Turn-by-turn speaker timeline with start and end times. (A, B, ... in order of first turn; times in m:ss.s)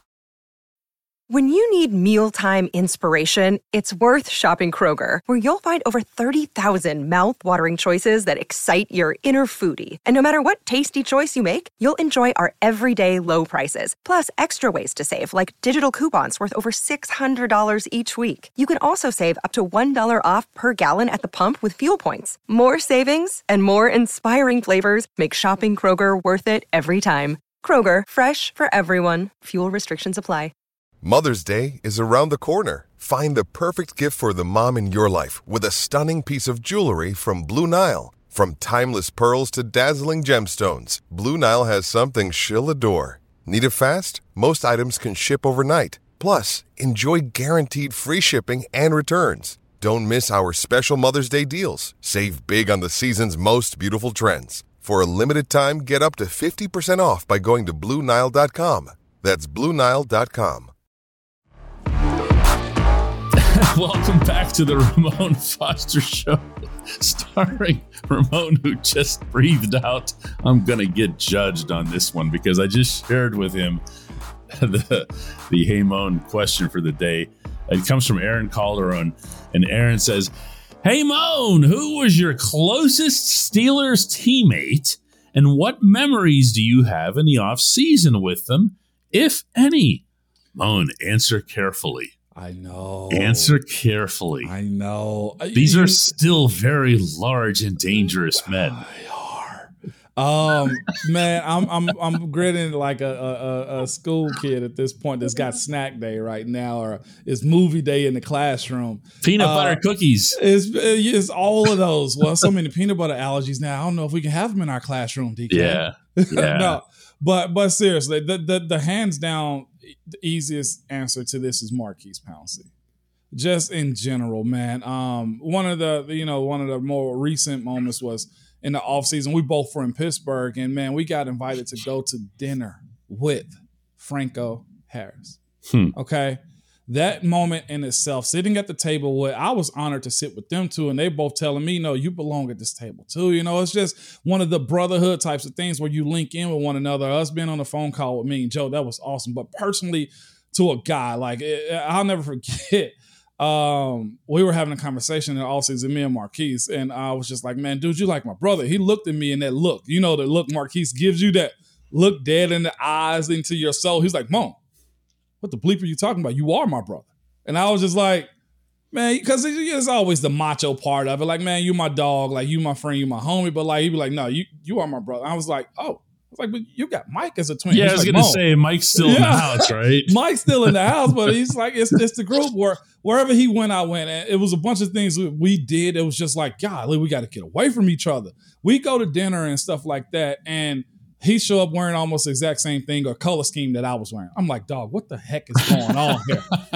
0:01.3-0:30.5 A
0:31.0-1:00.7 B
1:03.4-1:13.8 C
1:14.5-1:20.3 C
1:20.8-1:30.0 C
1:30.6-1:32.1 C
1:32.4-1:33.6 D
1:33.1-1:34.5 C
1:34.4-1:36.1 D
1:35.6-1:38.8 C
1:38.5-1:49.8 D
1:49.2-1:50.4 C
1:50.4-2:02.7 D
1:55.5-1:56.8 C
2:03.3-2:15.4 D
2:15.7-2:15.9 C
2:16.0-2:44.6 D
2:45.4-2:48.3 D
2:48.9-2:58.4 D
2:57.7-3:00.7 C
2:59.0-3:16.5 D
3:15.6-3:16.6 C